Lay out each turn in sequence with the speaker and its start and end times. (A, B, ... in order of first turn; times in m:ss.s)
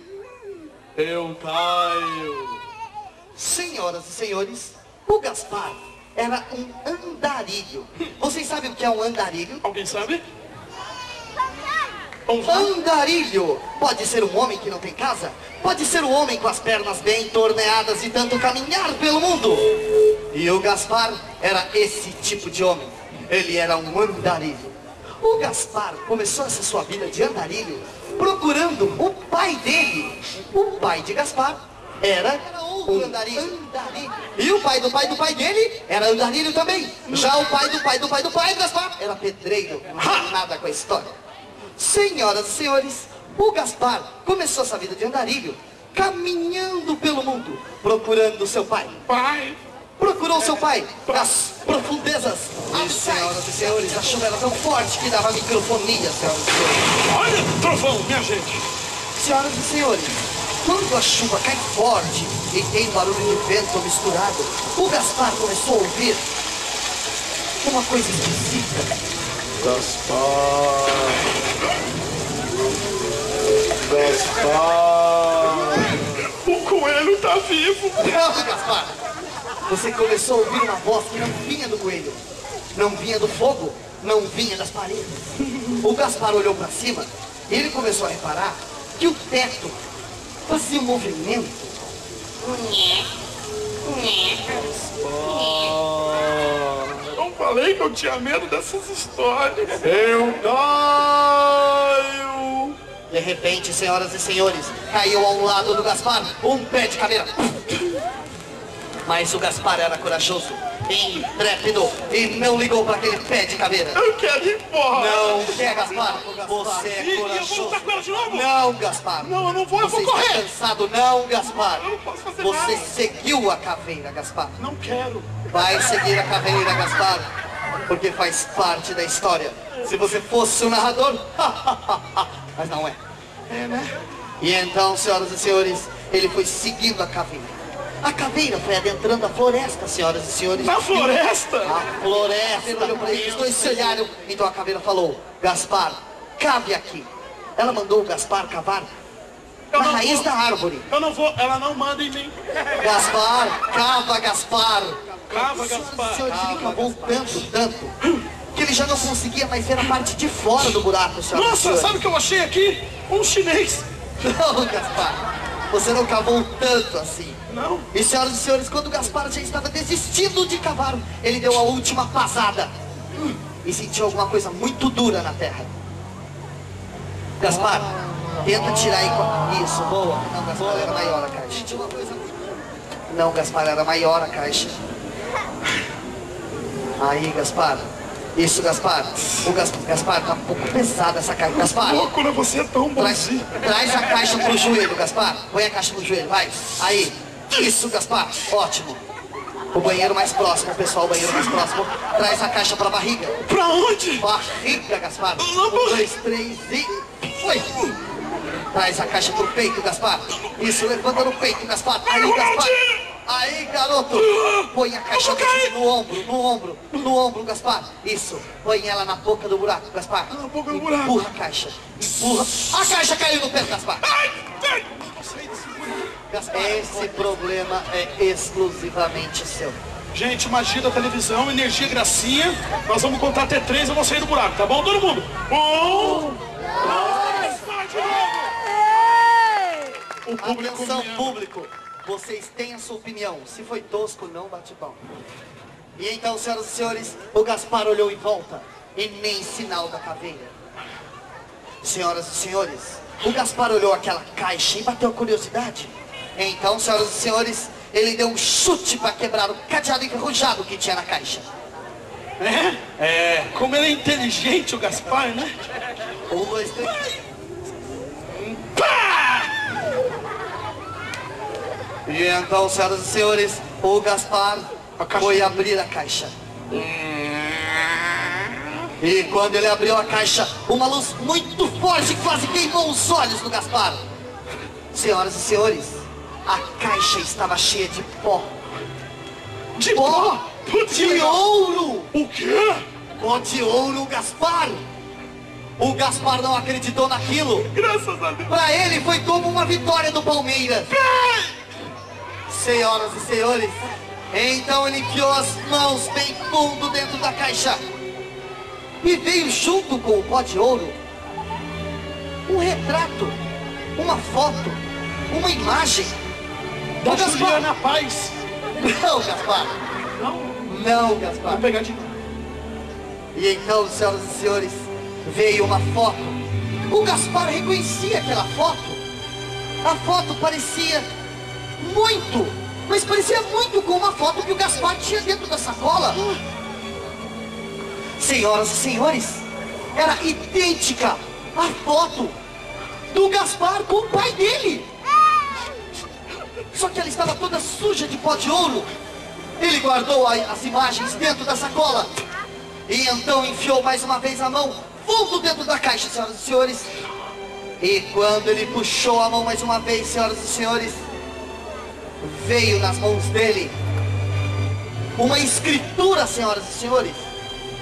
0:01.0-0:01.3 A
0:01.2-0:01.5 B
0:02.0-0:02.4 B
0:03.4-0:09.6 C
0:09.6-0:10.2 A
0:12.3-0:12.7 A
0:12.4-0:19.6 C
0:20.3-0:41.1 C
0:37.1-0:37.4 A
0:40.0-0:40.3 A
0:41.8-0:49.0 C
0:49.1-0:49.6 A
0:50.0-0:56.9 C
0:51.1-0:51.4 A
0:52.7-0:53.4 A
0:56.9-0:58.6 A
0:59.2-1:06.2 C
1:07.6-1:08.9 C
1:09.6-1:11.2 B
1:13.9-1:16.0 B
1:16.3-1:18.2 A
1:18.0-1:19.0 C
1:19.7-1:22.2 C
1:22.8-1:29.8 C
1:30.5-1:31.8 C
1:34.5-1:35.8 A
1:35.9-1:36.8 B
1:37.1-1:40.9 A
1:40.0-1:41.9 B
1:41.5-1:42.8 A
1:43.1-1:47.8 C
1:49.0-1:54.0 C
1:53.9-1:58.5 A
1:54.9-2:01.9 C
1:59.2-2:00.5 A
2:01.5-2:03.0 A
2:02.4-2:04.6 C
2:04.6-2:05.3 A
2:05.5-2:07.3 C
2:07.9-2:13.0 C
2:13.5-2:14.0 A
2:14.4-2:17.5 C
2:18.0-2:28.9 C
2:20.6-2:21.8 A
2:22.6-2:24.0 A
2:29.7-2:30.3 A
2:29.8-2:30.9 C
2:30.9-2:32.4 A
2:32.8-2:38.0 C
2:35.3-2:37.3 A
2:38.5-2:42.0 C
2:41.3-2:43.9 A
2:44.2-2:47.4 C
2:47.5-2:47.9 A
2:47.9-2:52.7 C
2:53.6-2:55.8 C
2:57.4-3:02.4 C
3:03.1-3:04.8 C
3:07.0-3:07.8 C
3:08.4-3:12.1 C
3:11.5-3:13.5 A
3:13.0-3:19.0 C
3:19.7-3:23.4 C
3:21.3-3:21.7 A
3:23.4-3:24.3 A
3:24.2-3:27.8 C
3:25.4-3:26.1 A
3:28.7-3:44.1 C
3:30.4-3:30.7 A
3:32.1-3:33.0 A
3:34.2-3:35.8 A
3:40.3-3:41.3 A
3:42.0-3:42.7 A
3:44.0-3:47.2 A
3:46.3-3:49.8 C
3:50.1-3:58.7 A
3:56.8-3:57.5 C
4:00.2-4:01.4 A
4:00.4-4:05.0 C
4:06.0-4:10.5 C
4:11.8-4:21.5 C
4:22.4-4:25.7 A
4:26.3-4:27.2 C
4:28.5-4:29.5 A
4:32.1-4:36.3 C
4:35.0-4:35.6 A
4:36.7-4:38.4 A
4:39.0-4:44.0 C
4:44.9-4:48.5 C
4:49.8-4:51.4 A
4:49.9-4:50.4 C
4:50.9-4:52.1 C
4:52.1-4:52.8 A
4:53.2-4:54.8 C
4:55.8-4:57.7 C
4:57.7-4:58.5 A
4:58.5-5:00.9 C
5:00.9-5:01.6 A
5:02.5-5:07.8 C
5:09.0-5:11.0 C
5:12.5-5:13.4 C
5:14.0-5:16.2 C
5:17.0-5:18.4 A
5:17.0-5:17.7 C
5:18.8-5:19.8 C
5:20.2-5:20.6 A
5:20.6-5:21.6 C
5:21.5-5:22.1 A
5:23.3-5:29.0 C
5:29.8-5:31.0 C
5:31.8-5:36.3 C
5:38.2-5:42.4 C
5:43.1-5:44.9 C
5:46.7-5:48.9 C
5:49.6-5:52.1 C
5:52.9-5:56.9 C
5:57.8-6:01.0 C
6:02.2-6:03.7 C
6:05.2-6:07.3 C